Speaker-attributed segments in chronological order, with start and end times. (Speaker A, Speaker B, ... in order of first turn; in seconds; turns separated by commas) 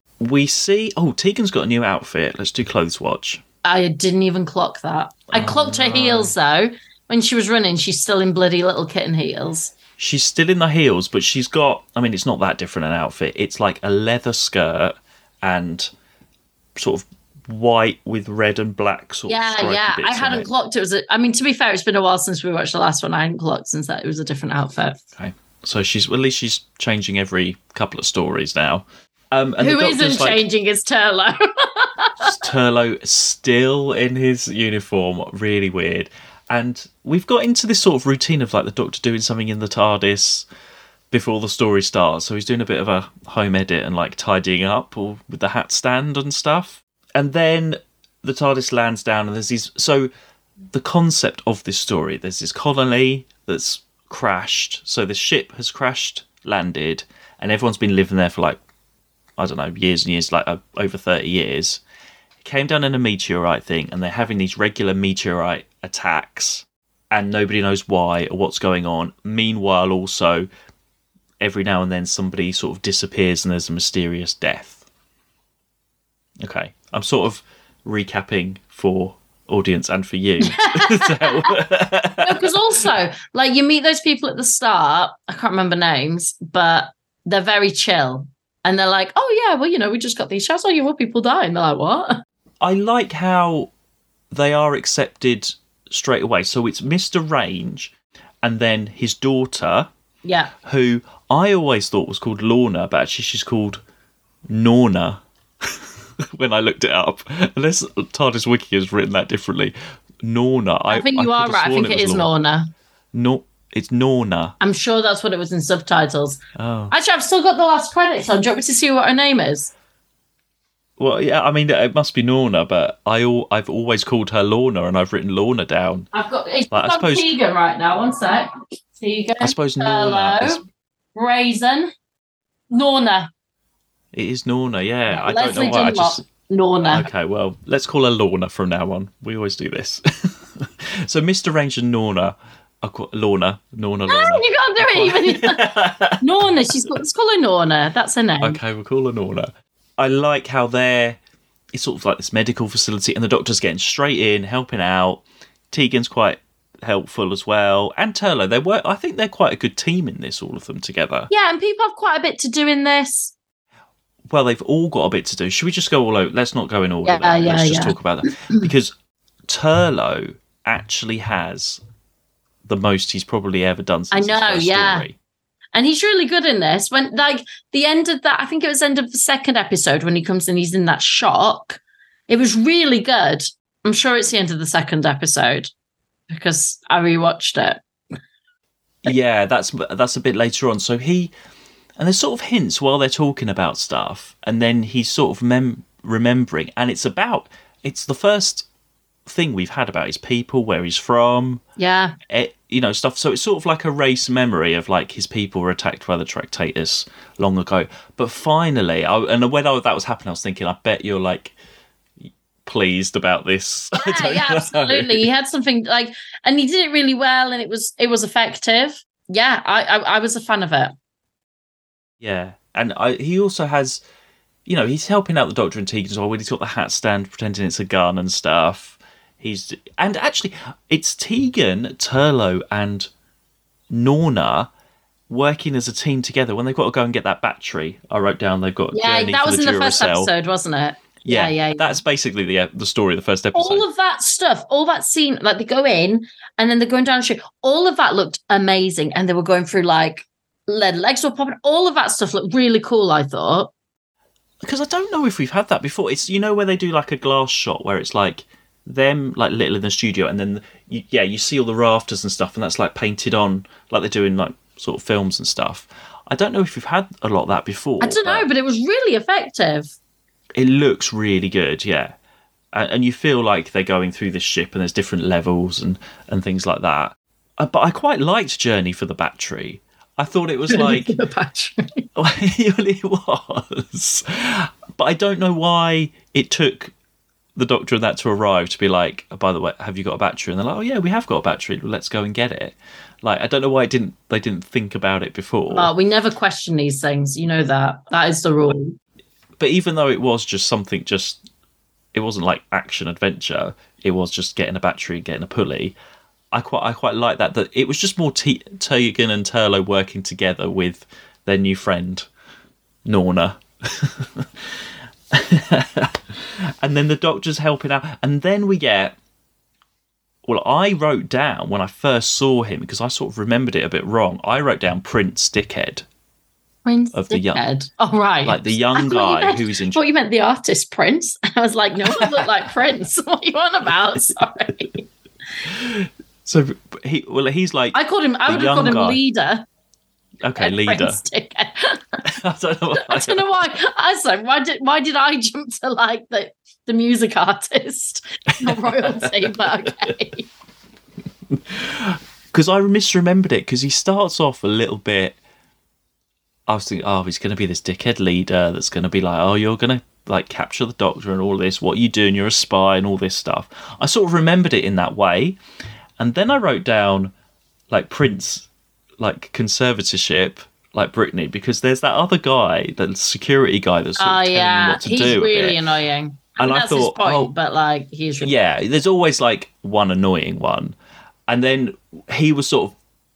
Speaker A: 0.2-3.4, Speaker B: 3.6-9.7, Speaker A: 5.3-6.3, Speaker A: 10.0-15.9, Speaker A: 16.8-20.5, Speaker B: 19.3-25.0, Speaker A: 25.2-30.5, Speaker B: 29.6-32.4, Speaker A: 32.2-40.5, Speaker A: 41.1-50.1, Speaker A: 50.7-58.6, Speaker A: 59.4-61.8, Speaker A: 62.4-70.5, Speaker A: 71.4-74.8, Speaker A: 76.4-82.8, Speaker B: 80.4-81.6, Speaker B: 82.2-92.2, Speaker A: 92.6-93.7, Speaker A: 94.3-99.9, Speaker B: 100.2-100.5, Speaker A: 100.6-103.8, Speaker A: 104.5-112.3, Speaker B: 110.9-112.7, Speaker A: 113.1-114.6, Speaker B: 114.6-116.4, Speaker A: 116.6-116.9, Speaker B: 116.9-119.7, Speaker A: 121.0-126.1, Speaker B: 126.1-130.6, Speaker A: 126.7-127.3, Speaker A: 129.4-130.7, Speaker B: 131.2-131.9, Speaker B: 132.7-133.3, Speaker A: 134.1-136.2, Speaker B: 135.1-137.1, Speaker A: 136.9-146.7, Speaker B: 144.1-145.7, Speaker B: 146.2-148.6, Speaker A: 148.4-151.2, Speaker A: 151.7-161.3, Speaker B: 161.3-163.3, Speaker A: 164.3-168.9, Speaker B: 167.0-168.7, Speaker A: 169.5-171.8, Speaker A: 172.7-175.2, Speaker B: 174.1-175.1, Speaker B: 175.8-185.7, Speaker B: 186.3-187.8, Speaker A: 189.0-191.3, Speaker A: 192.0-198.7, Speaker A: 199.3-201.6, Speaker B: 201.8-202.2, Speaker A: 202.3-211.6, Speaker A: 212.2-215.3, Speaker B: 214.0-220.9, Speaker A: 222.2-224.0, Speaker A: 224.7-233.1, Speaker A: 233.9-234.7, Speaker A: 235.3-240.3, Speaker B: 238.9-242.0, Speaker A: 241.2-243.9, Speaker B: 243.5-253.7, Speaker A: 254.6-268.5, Speaker B: 268.0-269.9, Speaker A: 270.6-272.2, Speaker A: 272.7-281.2, Speaker B: 280.7-282.1, Speaker A: 282.1-286.9, Speaker A: 287.6-295.9, Speaker B: 295.7-299.0, Speaker A: 299.6-301.4, Speaker A: 302.1-305.9, Speaker A: 306.5-312.3, Speaker A: 313.1-314.7, Speaker A: 315.3-319.2, Speaker A: 320.4-326.1, Speaker B: 326.9-335.1, Speaker A: 327.1-327.6, Speaker A: 328.4-330.0, Speaker A: 332.1-332.4, Speaker A: 335.6-339.2, Speaker B: 337.9-339.6, Speaker A: 340.4-341.2, Speaker B: 340.6-342.2, Speaker A: 342.3-343.5, Speaker B: 343.0-350.5, Speaker A: 348.6-350.1, Speaker A: 351.5-355.4, Speaker A: 356.7-365.6, Speaker A: 366.2-367.3, Speaker A: 367.9-368.7, Speaker A: 369.2-375.8, Speaker B: 374.2-378.5, Speaker A: 376.6-377.5, Speaker A: 378.4-380.9, Speaker A: 381.5-383.0